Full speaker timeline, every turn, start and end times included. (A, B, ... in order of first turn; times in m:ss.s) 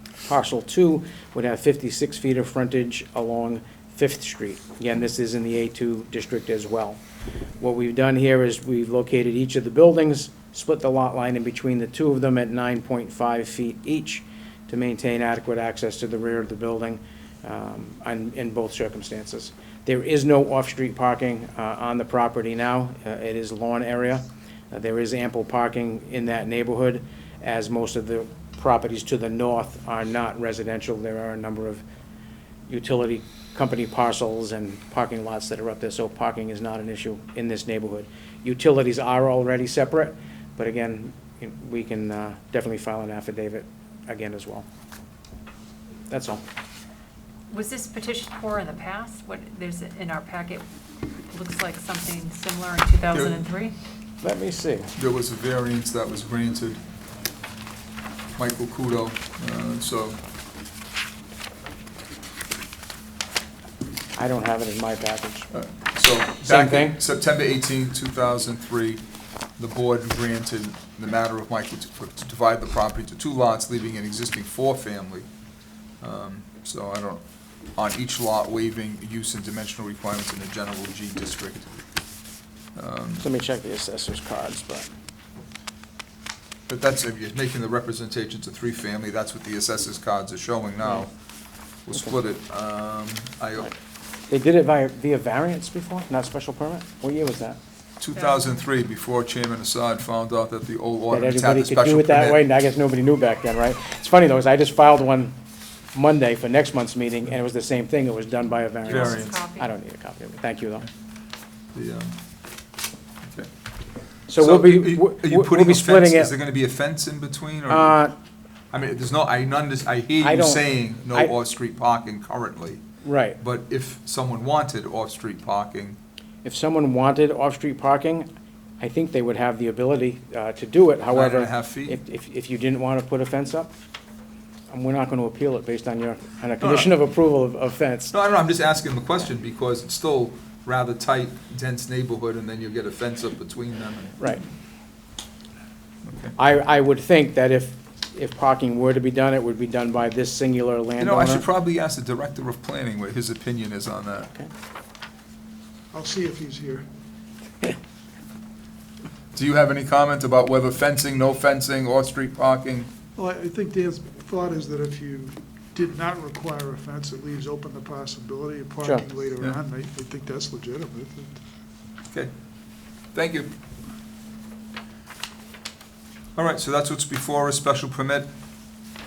0:00.2-0:07.0 A
0:07.6-0:31.8 A
0:32.7-0:44.6 A
0:46.1-0:46.4 A
0:47.5-0:50.6 B
0:51.3-0:53.7 B
0:53.1-0:53.4 C
0:54.2-0:54.9 A
0:55.0-0:56.8 C
0:58.4-1:00.2 C
1:04.2-1:05.5 A
1:05.5-1:09.0 C
1:06.4-1:07.0 A
1:09.6-1:15.2 C
1:16.0-1:17.2 C
1:17.8-1:21.7 C
1:22.8-1:23.2 C
1:23.2-1:24.9 A
1:26.7-1:31.1 C
1:31.9-1:33.7 C
1:34.3-1:37.6 A
1:38.0-1:42.4 C
1:38.2-1:38.5 B
1:41.1-1:45.3 A
1:45.9-1:50.9 A
1:48.8-1:49.7 B
1:48.9-1:49.4 C
1:51.7-1:52.1 C
1:54.3-1:56.3 A
1:54.4-1:58.0 C
1:57.7-1:58.1 A
1:58.7-2:02.8 C
2:00.2-2:01.3 A
2:03.0-2:03.4 A
2:03.4-2:06.0 C
2:06.4-2:08.3 A
2:08.8-2:13.7 A
2:11.1-2:12.0 C
2:14.7-2:18.1 A
2:16.6-2:16.9 C
2:18.1-2:24.2 C
2:26.0-2:26.3 C
2:26.4-2:31.4 A
2:31.0-2:34.3 C
2:35.9-2:36.8 D
2:39.3-2:42.9 C
2:43.2-2:51.3 D
2:53.1-2:53.5 C
2:56.4-2:58.3 C